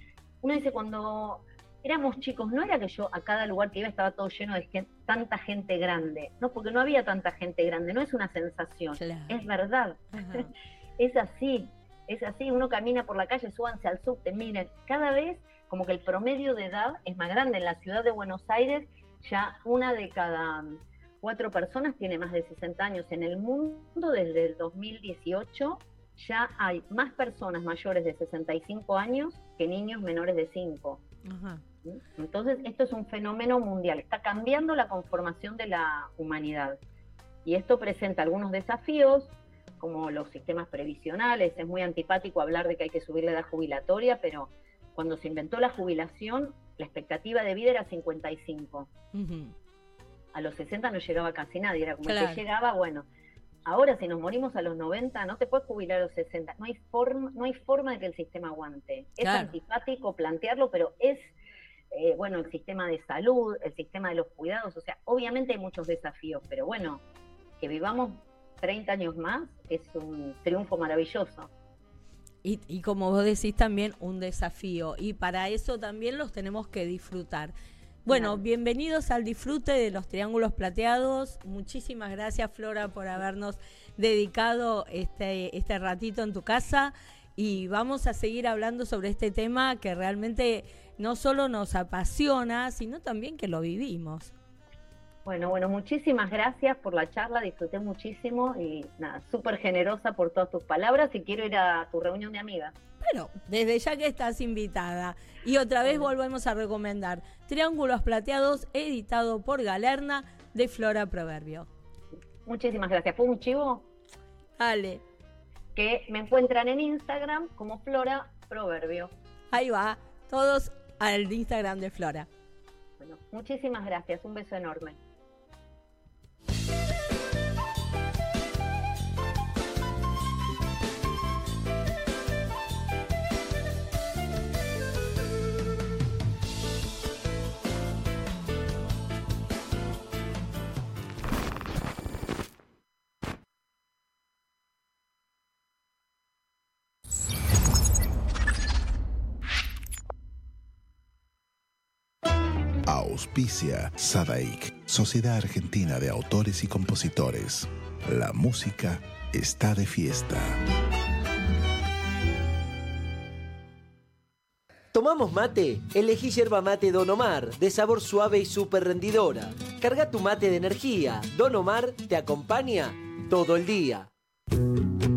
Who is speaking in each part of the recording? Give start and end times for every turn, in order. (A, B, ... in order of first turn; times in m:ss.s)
0:00.4-0:31.0 A
0:09.0-0:09.4 B
0:10.1-0:10.5 B
0:31.2-0:31.6 B
0:31.8-0:36.8 A
0:37.4-0:48.9 A
0:49.1-0:49.5 B
0:50.3-0:53.0 A
0:52.0-0:52.4 B
0:53.6-1:01.3 A
0:59.2-0:59.5 B
1:01.9-1:07.0 A
1:07.6-1:11.5 A
1:12.4-1:17.5 B
1:18.0-1:34.3 B
1:18.1-1:18.4 A
1:35.2-1:42.7 A
1:43.0-1:51.7 B
1:52.4-1:53.8 A
1:54.6-1:55.0 B
1:55.7-1:59.1 A
1:59.5-2:02.3 B
2:03.0-2:05.0 A
2:32.8-2:40.6 C
2:44.9-2:54.1 D